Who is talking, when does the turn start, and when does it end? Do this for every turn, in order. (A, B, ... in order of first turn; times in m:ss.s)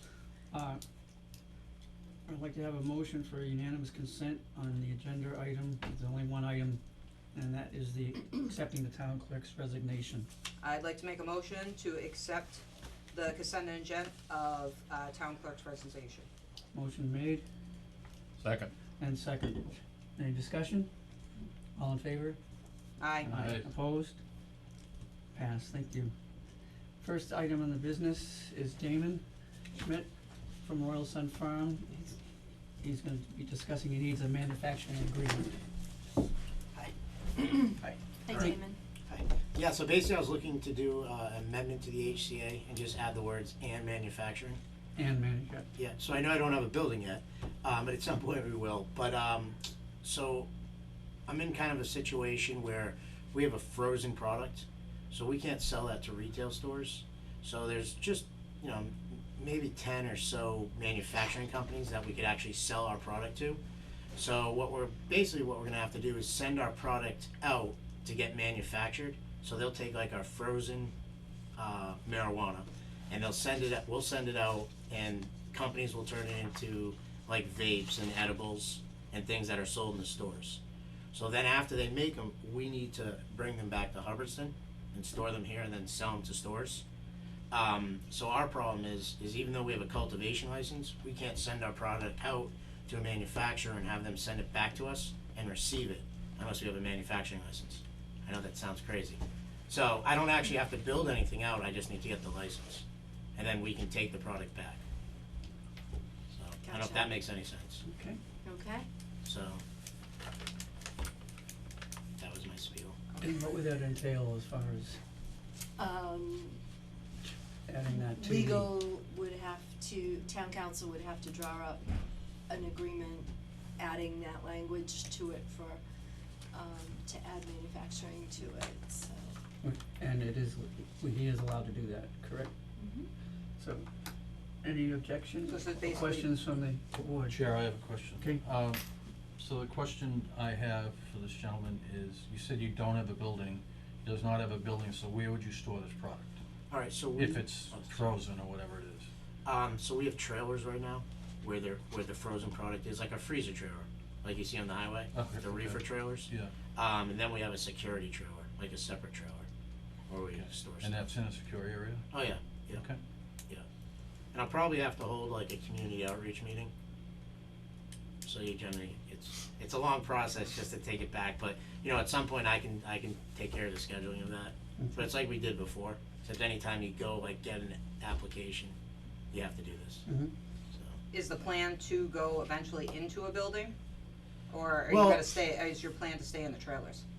0:00.5-0:00.8 A
0:02.2-0:06.8 A
0:07.3-0:10.3 A
0:10.6-0:16.3 B
0:16.7-0:17.4 A
0:18.4-0:18.7 C
0:19.0-0:20.9 A
0:21.8-0:22.4 A
0:23.0-0:23.3 B
0:23.2-0:24.2 A
0:23.3-0:23.6 C
0:25.3-0:26.1 A
0:27.0-0:29.2 A
0:29.7-0:30.1 A
0:30.6-0:32.2 A
0:32.8-0:35.6 A
0:37.8-0:38.6 A
0:38.2-0:38.8 D
0:39.1-0:44.6 E
0:45.0-0:45.7 A
0:45.8-0:50.5 E
0:51.3-1:03.6 E
1:04.2-1:10.9 E
1:11.6-1:20.6 E
1:21.1-1:26.8 E
1:27.5-1:42.8 E
1:43.4-1:44.8 E
1:46.3-1:47.8 E
1:46.6-1:47.1 D
1:47.8-1:48.2 A
1:48.4-1:48.9 D
1:49.2-1:49.6 E
1:52.2-1:53.0 E
1:53.2-1:55.0 A
1:55.8-1:56.6 D
1:57.7-1:58.7 A
1:58.0-2:05.8 D
2:06.5-2:09.4 D
2:09.6-2:12.5 A
2:12.8-2:13.1 D
2:13.6-2:13.8 A
2:14.6-2:17.4 A
2:15.5-2:16.3 B
2:17.3-2:18.8 C
2:18.2-2:18.4 A
2:19.4-2:26.4 C
2:26.7-2:28.2 E
2:27.2-2:29.1 C
2:29.4-2:39.5 E
2:35.1-2:36.5 C
2:40.1-2:41.0 E
2:40.3-2:42.0 C
2:42.1-2:42.8 E
2:42.7-2:43.0 C
2:44.3-2:46.7 E
2:48.2-2:58.7 E
2:54.8-2:55.1 A
2:59.3-3:00.0 E
3:00.0-3:00.3 A
3:00.7-3:01.0 E
3:01.1-3:03.7 B
3:04.5-3:07.0 B
3:04.9-3:05.2 E